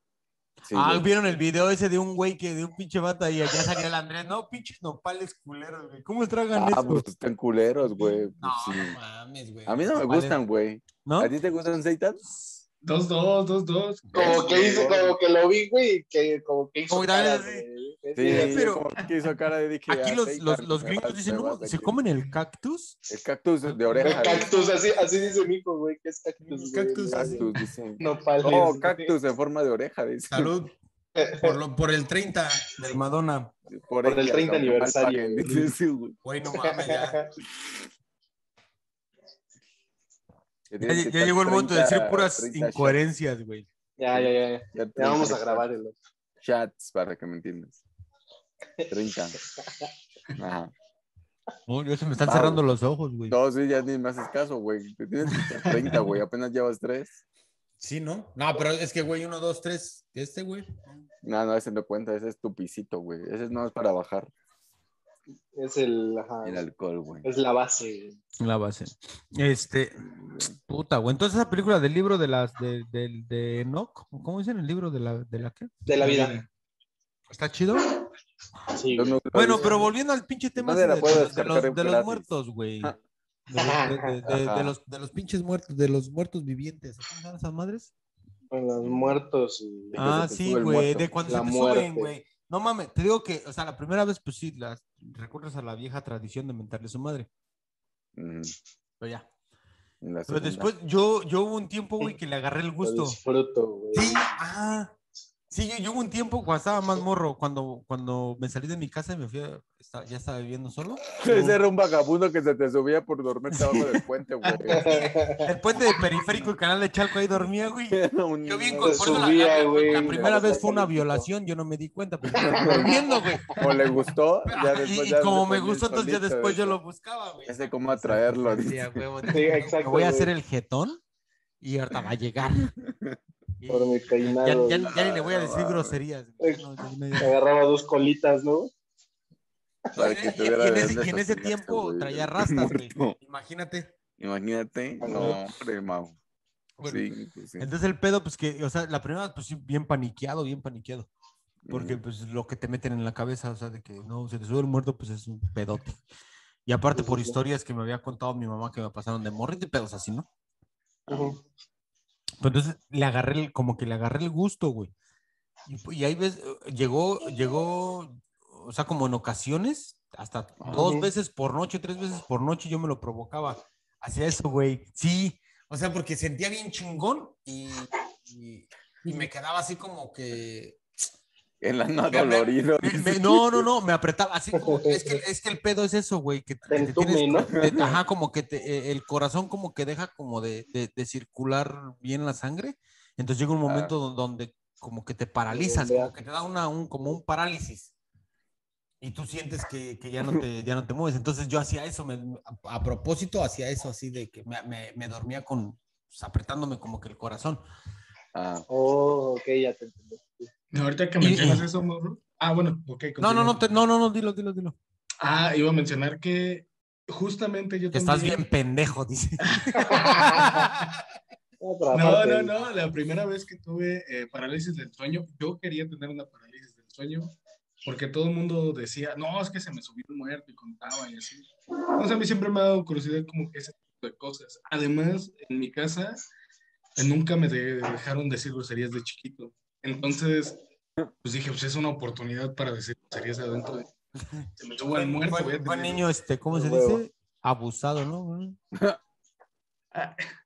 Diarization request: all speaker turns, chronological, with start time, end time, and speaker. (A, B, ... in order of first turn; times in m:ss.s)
0:00.6-0:01.0 A
0:00.7-0:07.1 B
0:06.5-0:09.0 A
0:08.4-0:10.4 B
0:09.6-0:12.2 A
0:11.0-0:11.3 B
0:12.2-0:12.6 B
0:12.8-0:14.9 C
0:14.1-0:15.2 A
0:14.1-0:18.7 D
0:16.9-0:17.6 B
0:18.2-0:22.0 A
0:18.2-0:18.8 B
0:19.9-0:23.0 B
0:23.1-0:24.5 A
0:23.6-0:25.4 B
0:24.0-0:27.5 D
0:26.4-0:27.6 B
0:27.1-0:30.6 A
0:28.0-0:29.1 D
0:30.3-0:30.7 B
0:31.2-0:31.5 D
0:31.3-0:33.5 B
0:33.7-0:36.2 A
0:34.0-0:35.5 D
0:36.2-0:37.2 B
0:36.5-0:37.3 D
0:40.7-0:43.0 A
0:40.8-0:43.7 B
0:44.0-0:46.0 D
0:44.1-0:45.6 A
0:46.4-0:47.8 A
0:48.9-0:49.4 A
0:49.6-0:49.9 D
0:50.4-0:50.7 A
0:51.7-0:53.4 B
0:52.2-0:52.6 A
0:53.3-0:57.2 A
0:57.8-1:00.8 B
1:01.2-1:04.3 A
1:05.5-1:06.6 D
1:06.4-1:07.2 A
1:07.2-1:08.2 D
1:08.4-1:15.7 B
1:15.9-1:16.4 D
1:16.0-1:16.4 C
1:17.3-1:17.9 B
1:18.7-1:19.8 D
1:18.9-1:19.9 A
1:19.3-1:23.0 B
1:20.6-1:22.3 A
1:23.5-1:27.9 B
1:23.5-1:24.2 D
1:24.2-1:24.8 A
1:28.5-1:30.0 D
1:28.8-1:29.2 A
1:29.9-1:31.1 A
1:30.0-1:37.3 B
1:31.2-1:32.1 D
1:38.1-1:38.5 A
1:39.0-1:39.3 B
1:40.0-1:40.7 A
1:40.3-1:43.2 B
1:42.8-1:44.3 D
1:43.9-1:44.9 B
1:45.5-1:51.6 B
1:51.2-1:55.0 A
1:53.5-1:54.0 B
1:54.7-1:55.5 D
1:54.7-2:03.6 B
1:57.9-2:00.6 A
1:58.8-2:01.3 D
2:02.4-2:03.2 D
2:02.4-2:06.8 A
2:04.4-2:11.0 B
2:07.4-2:09.0 A
2:09.3-2:10.3 D
2:11.6-2:12.7 B
2:12.6-2:13.2 A
2:13.6-2:17.4 B
2:13.7-2:14.9 D
2:14.8-2:16.0 A
2:17.2-2:18.7 D
2:19.9-2:23.2 A
2:20.0-2:23.9 B
2:24.2-2:26.2 A
2:25.0-2:25.4 D
2:26.8-2:27.0 B
2:26.8-2:27.7 A
2:27.6-2:31.1 B
2:31.6-2:32.0 A
2:31.7-2:36.0 B
2:36.6-2:40.3 B
2:36.9-2:37.4 D
2:41.1-2:41.4 A
2:41.1-2:41.4 D
2:42.4-2:44.9 B
2:45.7-3:00.8 B
2:50.6-2:50.9 A
2:50.7-2:51.1 D
3:01.6-3:03.6 A
3:02.1-3:17.9 B
3:04.6-3:05.2 D
3:06.7-3:07.8 D
3:07.5-3:08.0 A
3:13.6-3:13.9 A
3:15.5-3:16.1 D
3:19.0-3:27.6 B
3:28.3-3:28.6 A
3:28.7-3:30.5 D
3:30.7-3:33.6 C
3:31.2-3:31.6 B
3:33.2-3:34.8 B
3:35.2-3:38.4 C
3:37.9-3:41.0 B
3:39.8-3:40.6 D
3:39.9-3:40.4 C
3:41.6-3:42.5 D
3:41.9-3:56.2 C
3:57.0-4:00.6 C
4:01.2-4:03.9 C
4:04.2-4:08.6 B
4:04.6-4:06.0 C
4:06.5-4:07.0 D
4:08.7-4:09.0 A
4:09.9-4:10.3 C